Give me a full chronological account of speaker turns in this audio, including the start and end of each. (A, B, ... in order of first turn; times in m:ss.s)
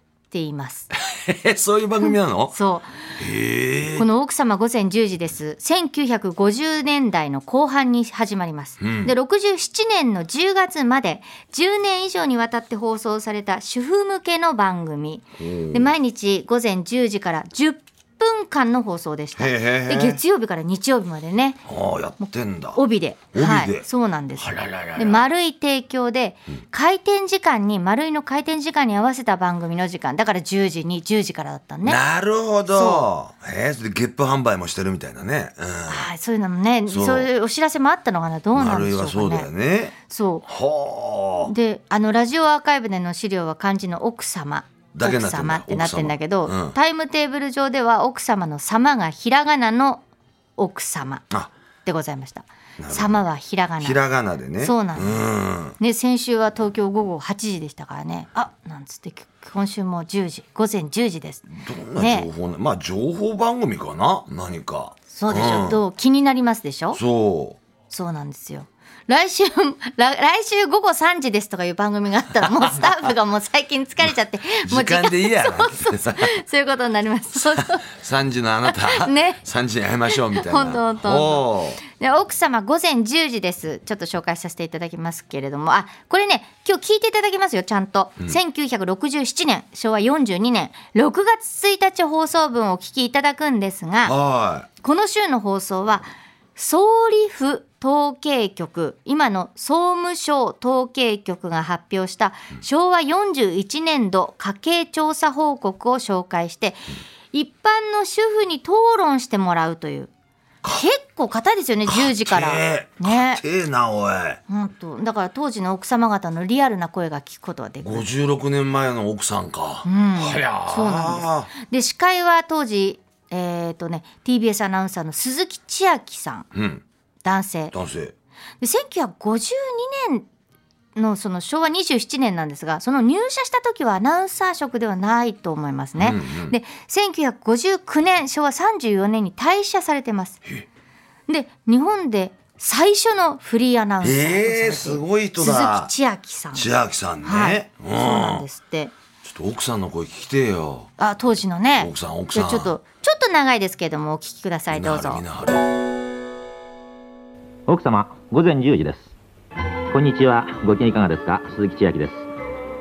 0:00.3-0:00.9 A
0:01.1-0:02.5 B
0:02.1-0:02.9 A
0:03.2-0:04.1 B
0:04.0-0:21.6 A
0:08.8-0:09.1 B
0:15.4-0:15.9 B
0:19.4-0:20.2 B
0:21.6-0:22.8 B
0:22.2-0:32.0 A
0:23.3-0:25.2 B
0:31.8-0:36.1 B
0:32.7-0:33.1 A
0:35.9-0:39.5 A
0:36.9-0:37.3 B
0:38.5-0:41.5 B
0:40.1-0:40.4 A
0:41.4-0:50.0 A
0:44.9-0:46.8 B
0:50.6-0:51.2 A
0:51.8-0:54.0 A
0:52.8-0:53.2 B
0:53.8-0:55.8 B
0:54.6-0:55.2 A
0:55.8-1:02.3 A
1:01.5-1:05.8 B
1:05.1-1:07.0 A
1:06.9-1:07.6 B
1:07.9-1:17.9 A
1:12.4-1:12.8 B
1:14.6-1:16.4 B
1:17.3-1:21.8 B
1:18.7-1:19.4 A
1:20.1-1:34.2 A
1:34.0-1:34.7 B
1:34.8-1:50.1 A
1:50.7-1:53.4 A
1:51.8-1:54.4 B
1:54.5-1:58.1 A
1:57.8-2:01.5 B
1:59.8-2:06.5 A
2:06.5-2:06.8 B
2:07.2-2:07.7 A
2:07.7-2:08.1 B
2:08.6-2:10.3 A
2:10.9-2:20.4 A
2:16.0-2:16.5 B
2:21.3-2:26.7 A
2:24.0-2:25.9 B
2:26.5-2:28.4 B
2:27.2-2:28.9 A
2:29.2-2:30.9 B
2:31.0-2:35.2 A
2:31.8-2:32.8 B
2:34.7-2:35.6 B
2:37.7-2:39.1 C
2:39.9-2:42.3 C